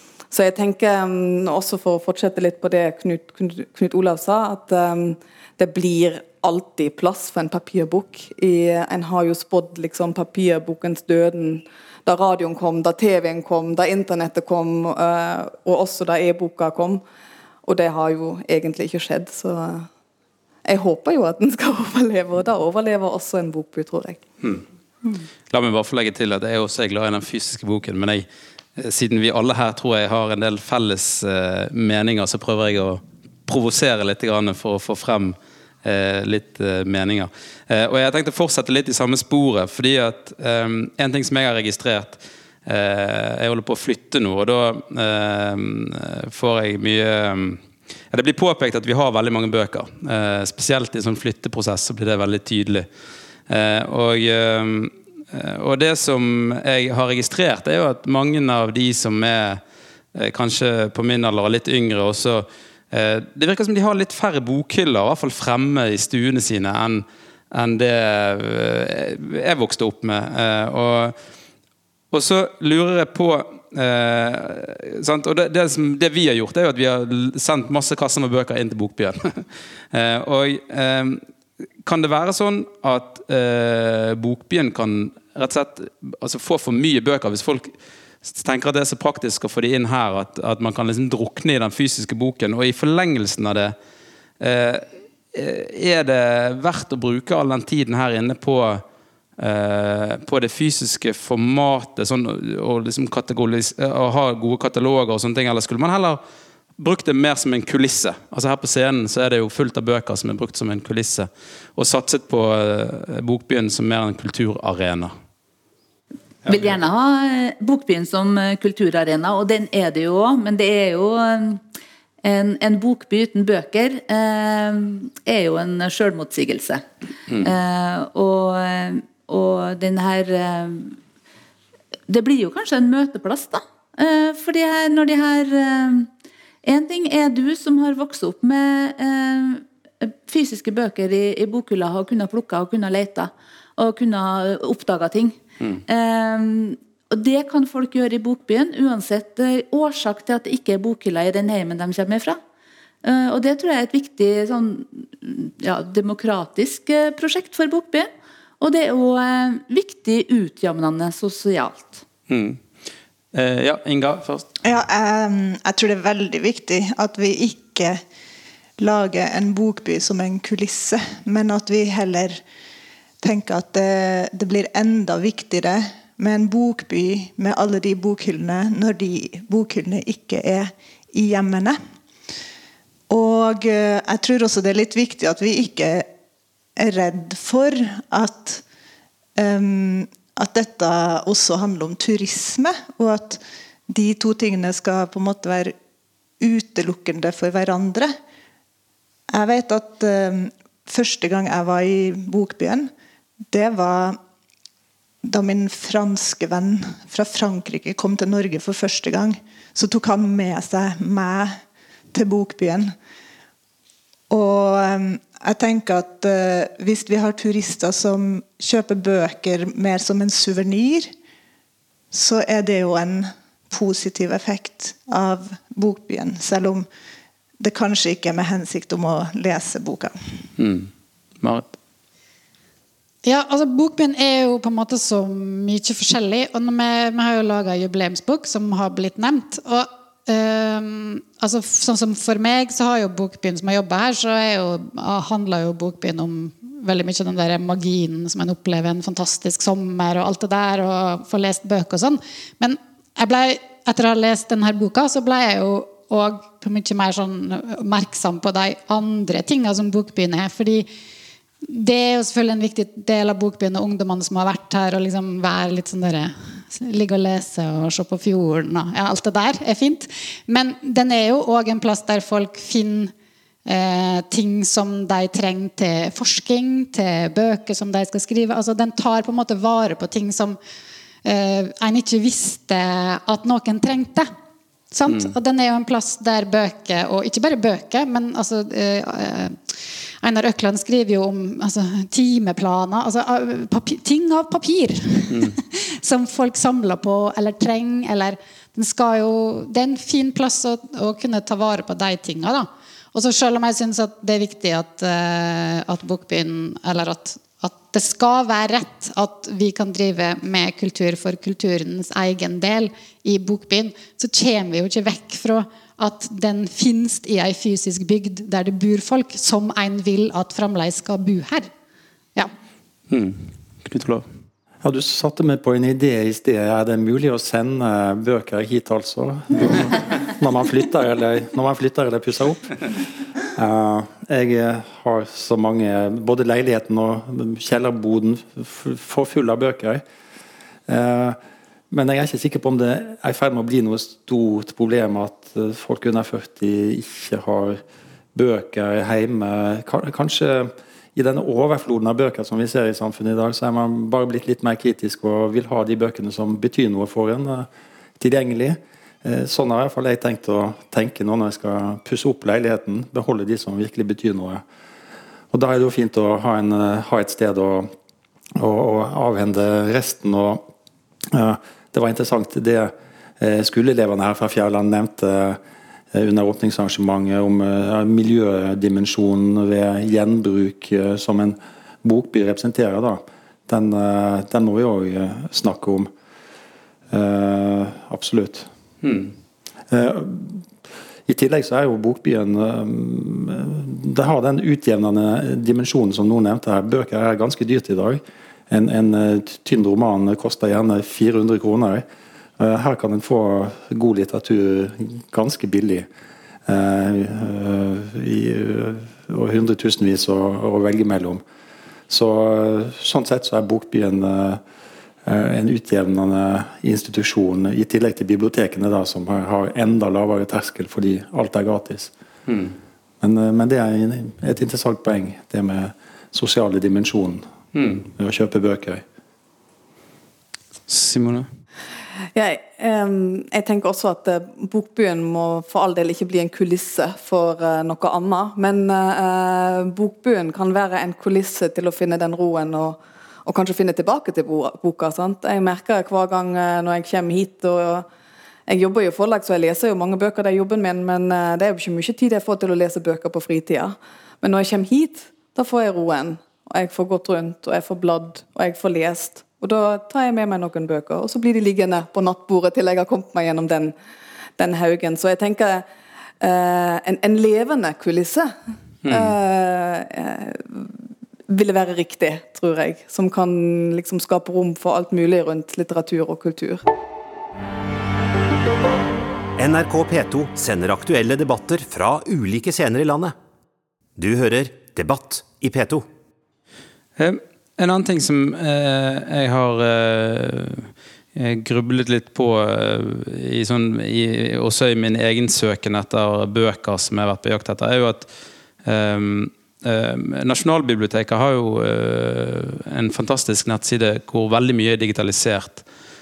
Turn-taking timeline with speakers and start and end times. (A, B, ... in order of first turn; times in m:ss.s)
0:00.3-0:17.0 A
0:17.6-0:19.9 A
0:20.6-0:24.2 A
0:25.5-0:47.6 B
0:48.1-0:52.9 B
0:53.5-0:59.6 B
1:00.1-1:11.2 B
1:12.1-1:21.2 B
1:21.8-1:27.7 B
1:28.2-1:33.8 B
1:34.4-1:38.8 B
1:39.4-1:46.2 B
1:46.8-1:55.1 B
1:56.4-1:56.8 B
1:56.5-2:01.6 C
2:02.2-2:06.8 C
2:07.4-2:11.0 C
2:12.1-2:16.1 C
2:16.6-2:32.4 C
2:33.0-2:38.1 C
2:38.6-2:42.0 C
2:42.3-2:42.6 B
2:43.3-2:44.5 B
2:44.6-2:48.0 D
2:48.8-2:52.4 D
2:53.2-3:01.8 D
3:03.1-3:06.1 D
3:06.8-3:08.6 D
3:09.4-3:15.8 D
3:16.4-3:18.1 D
3:19.3-3:22.9 D
3:23.5-3:24.2 D
3:25.2-3:31.6 D
3:32.1-3:32.9 D
3:34.3-3:41.1 D
3:42.1-3:46.9 D
3:47.6-3:50.4 D
3:50.6-3:50.9 B
3:51.4-3:51.7 B
3:53.2-4:20.9 E
4:21.7-4:33.1 E
4:33.6-4:40.6 E
4:41.2-4:44.3 E
4:44.9-4:49.6 E
4:45.1-4:45.3 B
4:50.2-5:21.7 E
4:55.3-4:55.6 B
5:23.1-5:24.3 B
5:24.8-5:32.8 F
5:33.5-5:40.0 F
5:40.9-5:41.4 F
5:41.9-5:47.8 F
5:48.3-5:57.7 F
5:58.2-6:04.6 F
6:05.5-6:07.9 F
6:08.6-6:10.6 F
6:11.3-6:15.6 F
6:16.1-6:26.1 F
6:27.1-6:28.7 F
6:29.0-6:29.3 B
6:29.9-6:30.7 F
6:31.3-6:42.0 F
6:42.6-6:46.1 F
6:46.6-6:51.4 F
6:52.1-6:54.6 F
6:55.2-7:02.1 F
7:02.5-7:02.8 B
7:03.2-7:07.5 F
7:07.8-7:08.1 B
7:08.2-7:09.0 F
7:10.9-7:11.5 B
7:12.4-7:28.1 A
7:28.7-7:43.9 A
7:44.6-7:45.9 A
7:46.4-7:48.6 A
7:49.0-7:49.4 B
7:49.1-7:50.9 A
7:51.5-7:56.8 A
7:59.6-8:03.4 G
8:04.2-8:06.1 G
8:07.2-8:18.3 B
8:18.8-8:25.8 B